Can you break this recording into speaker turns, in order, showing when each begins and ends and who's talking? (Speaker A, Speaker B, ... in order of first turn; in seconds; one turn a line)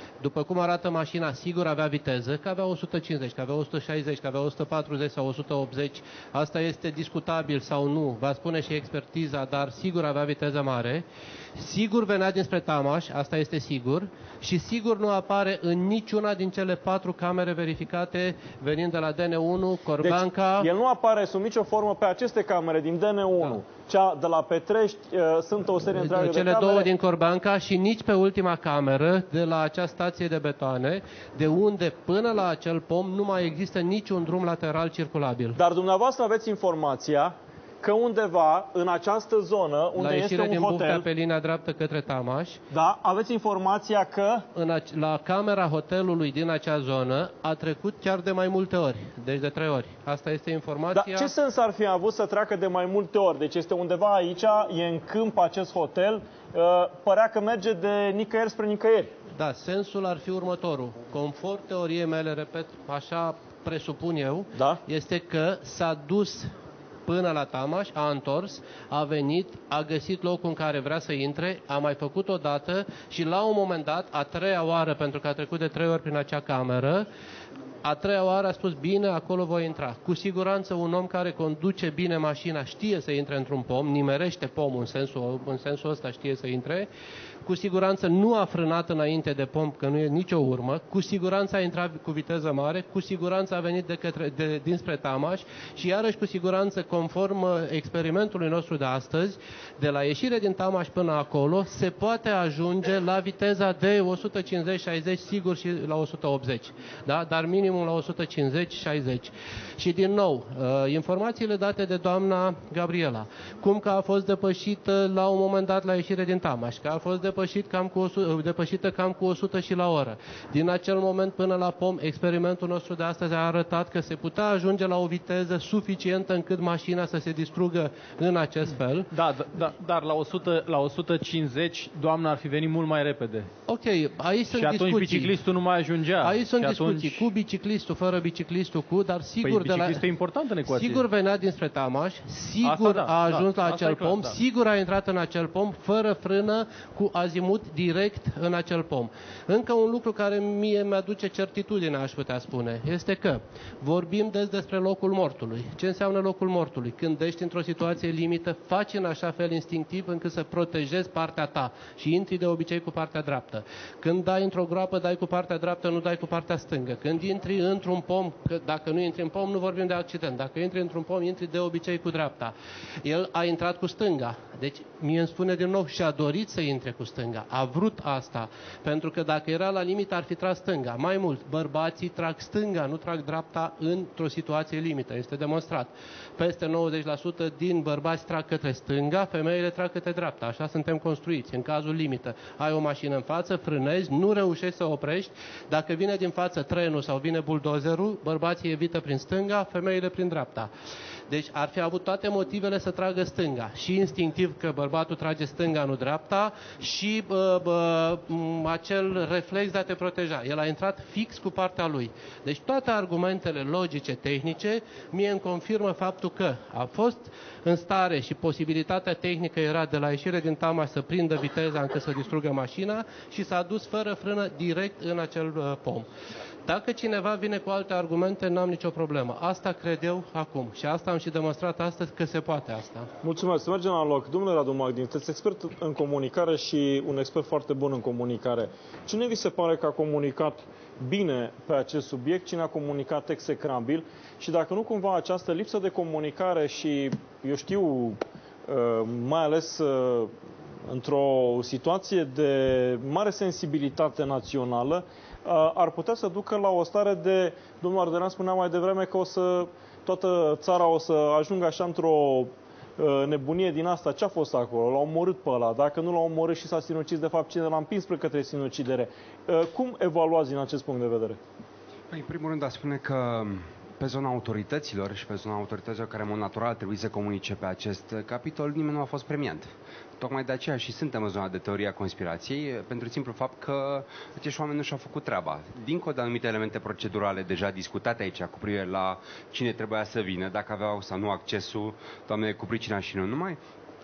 Speaker A: 0.2-11.1
Speaker A: 11.6-20.7
Speaker B: 20.0-26.9
Speaker A: 25.9-35.6
Speaker B: 35.5-41.1
Speaker A: 40.0-42.6
Speaker B: 42.7-44.5
Speaker A: 44.5-51.3
Speaker B: 50.9-59.1
Speaker A: 59.4-66.5
Speaker B: 64.5-64.8
Speaker A: 67.1-77.1
Speaker A: 77.8-86.9
Speaker A: 87.4-129.1
Speaker C: 129.1-133.5
Speaker A: 133.7-135.4
Speaker C: 134.5-137.3
Speaker A: 136.2-140.0
Speaker C: 139.4-141.0
Speaker A: 140.6-200.7
Speaker C: 142.6-144.4
Speaker A: 201.3-226.1
Speaker A: 226.7-233.1
Speaker B: 233.2-250.3
Speaker B: 250.9-271.4
Speaker D: 272.1-293.6